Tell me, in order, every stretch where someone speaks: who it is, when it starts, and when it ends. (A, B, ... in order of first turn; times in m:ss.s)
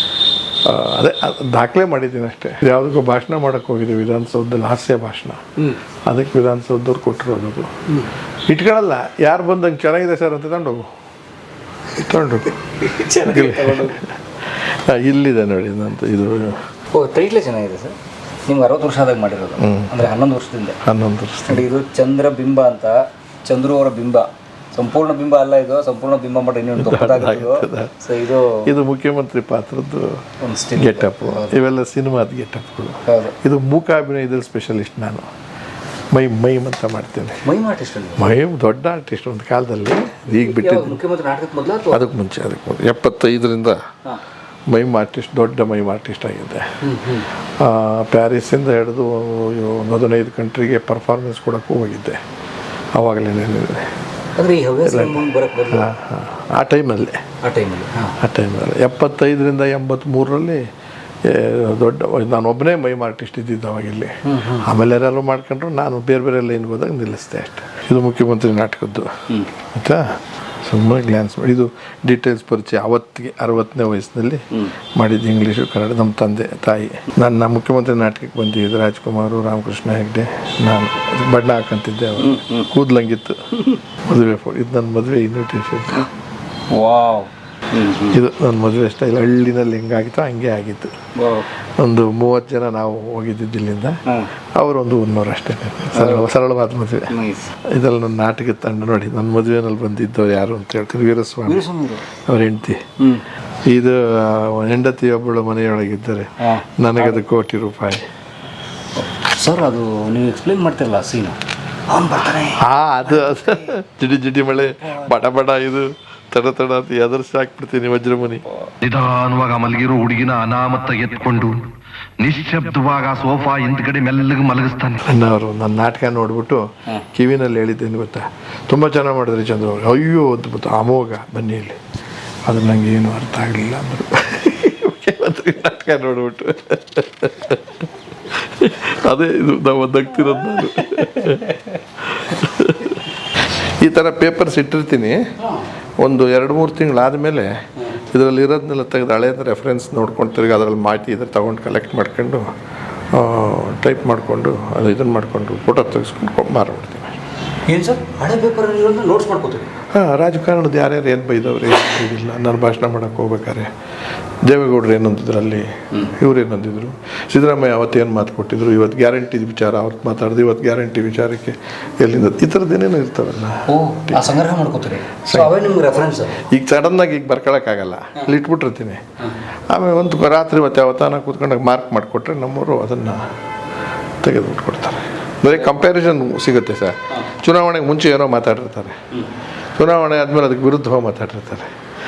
0:00.6-0:05.5 A
0:06.1-0:07.7 A
0:08.5-0:10.9 A
0:12.0-0:12.6 A
0:12.8-0:14.0 B
0:13.2-0:16.6 A
0:16.9-0:17.9 B
0:18.5-0:20.8 B
0:19.6-0:20.0 A
0:20.8-0:21.7 A
0:21.5-0:28.6 B
0:26.8-0:27.9 A
0:28.6-0:30.2 A
0:30.4-0:31.6 B
0:30.7-0:35.2 A
0:33.1-0:33.4 B
0:36.1-0:37.4 A
0:37.4-0:38.4 B
0:38.2-0:41.0 A
0:40.3-0:42.0 B
0:41.9-0:43.8 A
0:44.7-0:46.6 A
0:46.8-0:47.3 B
0:47.6-0:52.2 A
0:52.9-0:53.9 A
0:54.4-0:55.9 B
0:54.8-0:57.2 A
0:57.4-0:58.2 B
0:58.2-1:00.6 A
1:01.2-1:23.4 A
1:04.2-1:04.7 B
1:22.2-1:22.7 B
1:24.1-1:26.1 A
1:26.7-1:28.2 B
1:28.1-1:30.9 A
1:31.2-1:31.5 B
1:31.8-1:34.0 A
1:34.1-1:34.3 B
1:34.6-1:37.1 A
1:35.9-1:36.2 B
1:37.1-1:37.5 B
1:37.7-1:41.6 A
1:41.5-1:42.0 B
1:42.3-1:42.8 A
1:43.7-1:48.0 A
1:46.4-1:47.2 B
1:49.0-1:52.6 B
1:52.6-1:58.4 A
1:53.2-1:53.5 B
1:58.8-2:01.6 C
2:02.2-2:05.0 C
2:05.0-2:11.8 A
2:12.4-2:25.2 A
2:25.4-2:25.6 B
2:26.0-2:32.5 A
2:33.1-2:37.2 A
2:37.7-2:39.7 B
2:39.9-2:43.7 A
2:44.4-2:54.2 A
2:53.7-2:56.4 B
2:55.3-2:55.6 A
2:56.4-2:59.0 A
2:59.7-3:03.2 A
3:04.2-3:08.9 A
3:09.8-3:11.7 A